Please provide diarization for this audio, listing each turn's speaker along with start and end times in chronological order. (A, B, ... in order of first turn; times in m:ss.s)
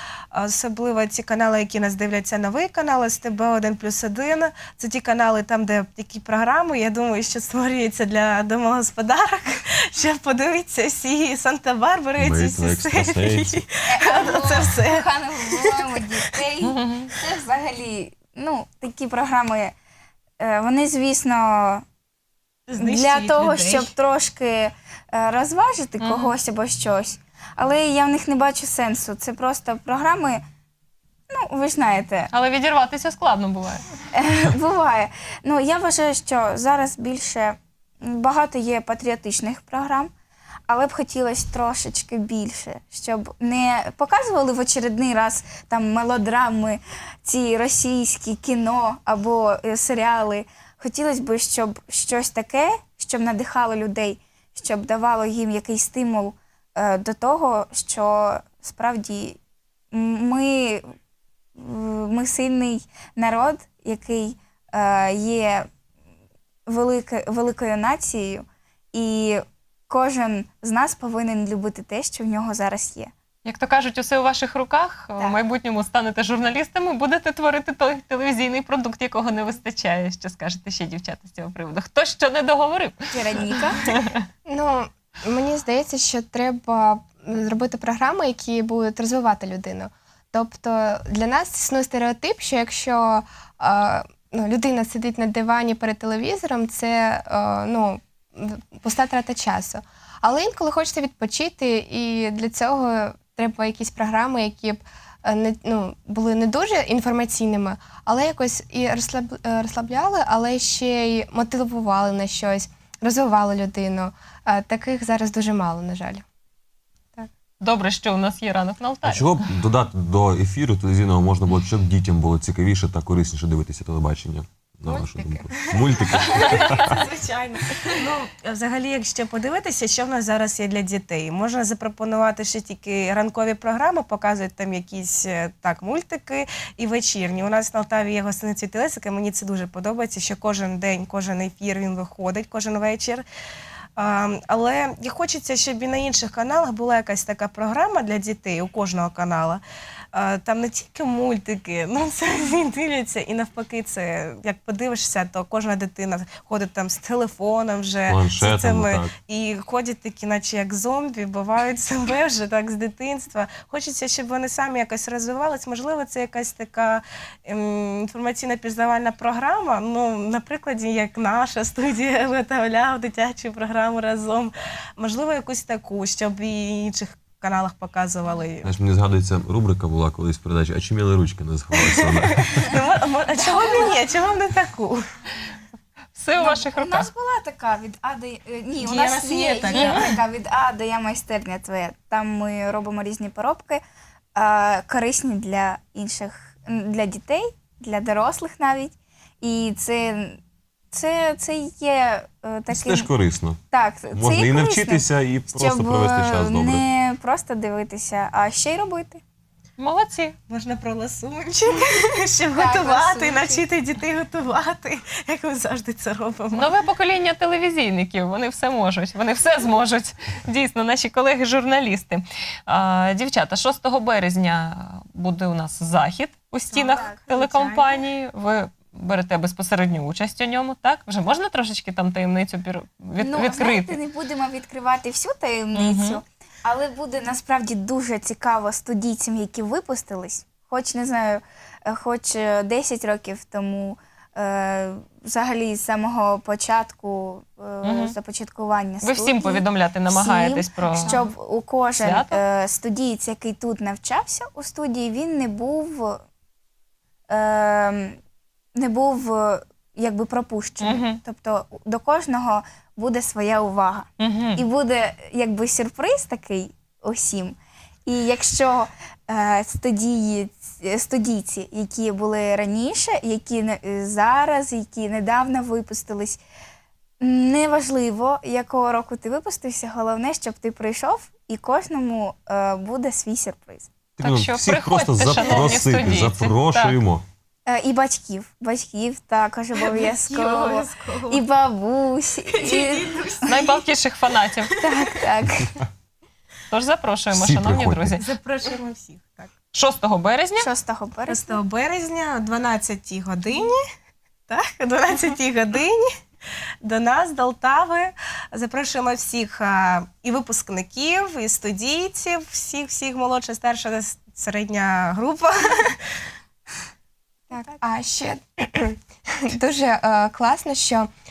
0:00.3-0:15.9 A
0:12.2-0:13.6 B
0:13.9-0:19.7 C
0:16.6-0:17.1 D
0:20.4-0:21.8 C
0:22.7-0:23.9 A
0:22.8-0:30.4 C
0:26.0-0:26.3 D
0:31.3-0:32.3 C
0:32.3-0:33.8 D
0:34.1-0:40.1 C
0:40.7-0:59.4 C
0:59.9-1:00.8 C
1:01.5-1:05.7 C
1:06.7-1:13.1 C
1:13.4-1:24.2 D
1:23.1-1:23.8 C
1:24.4-1:56.2 E
1:57.6-1:59.3 D
1:59.0-2:07.0 B
2:04.9-2:06.0 E
2:05.5-2:23.2 A
2:06.4-2:06.8 D
2:24.0-2:29.6 A
2:30.1-2:58.7 A
2:38.1-2:39.1 B
2:58.6-3:02.7 B
3:01.7-3:05.0 A
3:03.4-3:04.0 C
3:06.1-3:07.1 D
3:06.4-3:13.8 C
3:08.8-3:10.1 A
3:09.7-3:10.0 D
3:14.3-3:20.4 C
3:20.9-3:23.1 C
3:22.7-3:23.6 B
3:23.7-3:29.2 C
3:24.1-3:26.8 B
3:29.8-3:30.4 D
3:30.5-3:36.7 A
3:32.5-3:33.6 C
3:36.5-3:54.0 D
3:46.8-3:48.0 A
3:46.8-3:47.2 C
3:53.2-4:16.2 C
3:55.7-3:56.2 D
4:07.8-4:08.1 D
4:09.0-4:11.2 D
4:12.0-4:12.4 D
4:17.3-4:18.2 C
4:18.7-4:36.4 C
4:20.8-4:21.2 D
4:24.2-4:24.6 D
4:37.2-4:43.9 C
4:44.2-4:47.2 B
4:44.2-4:47.0 D
4:47.7-4:53.2 C
4:49.8-4:51.4 A
4:52.5-4:53.8 A
4:53.4-4:54.7 D
4:54.7-4:55.2 A
4:54.8-4:55.8 C
4:56.7-4:58.2 D
4:57.3-4:58.2 B
4:58.2-4:59.5 A
4:59.7-5:00.7 D
5:00.6-5:01.6 C
5:01.3-5:03.8 A
5:04.5-5:06.1 A
5:06.8-5:16.1 A
5:17.5-5:21.1 E